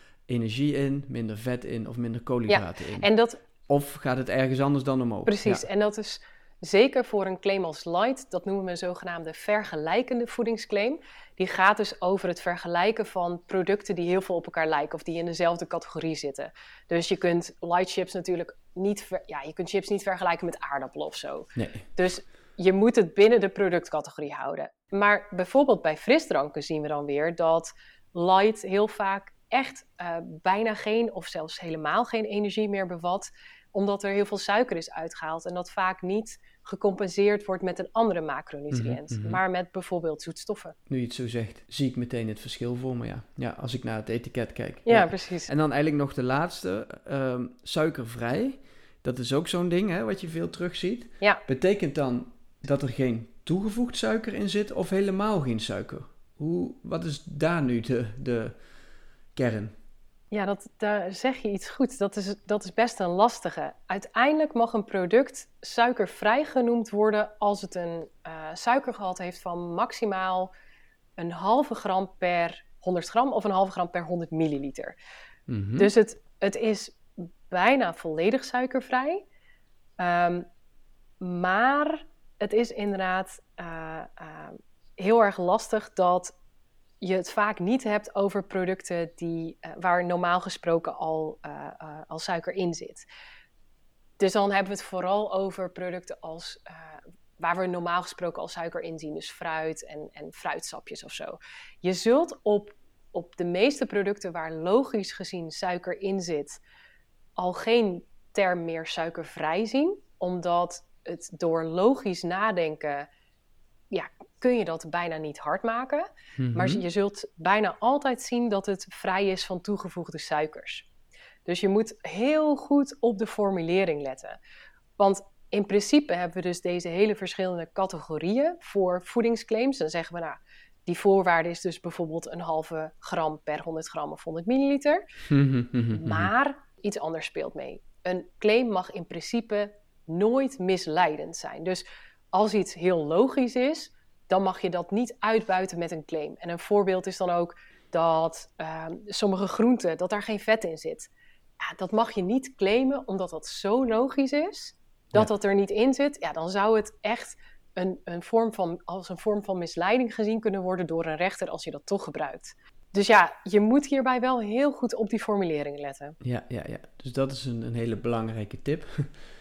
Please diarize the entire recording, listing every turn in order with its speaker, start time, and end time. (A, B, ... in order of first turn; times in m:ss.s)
0:00.3-0:03.1 A
0:02.5-0:03.4 B
0:03.7-0:05.7 A
0:05.3-0:40.8 B
0:21.6-0:21.9 A
0:38.7-0:39.4 A
0:40.9-0:58.6 A
0:44.9-0:45.5 B
0:59.4-0:59.7 A
1:00.3-1:10.5 B
1:11.2-1:15.0 B
1:15.5-1:15.9 A
1:15.8-1:19.2 B
1:20.0-1:20.5 B
1:21.2-1:26.3 B
1:27.0-1:33.0 B
1:34.2-1:46.6 B
1:47.4-1:53.1 B
1:53.9-2:00.9 B
1:56.4-1:56.8 A
2:01.5-2:04.4 B
2:05.0-2:15.1 B
2:15.3-2:16.3 A
2:15.9-2:31.1 B
2:31.6-2:46.2 B
2:46.2-2:49.2 A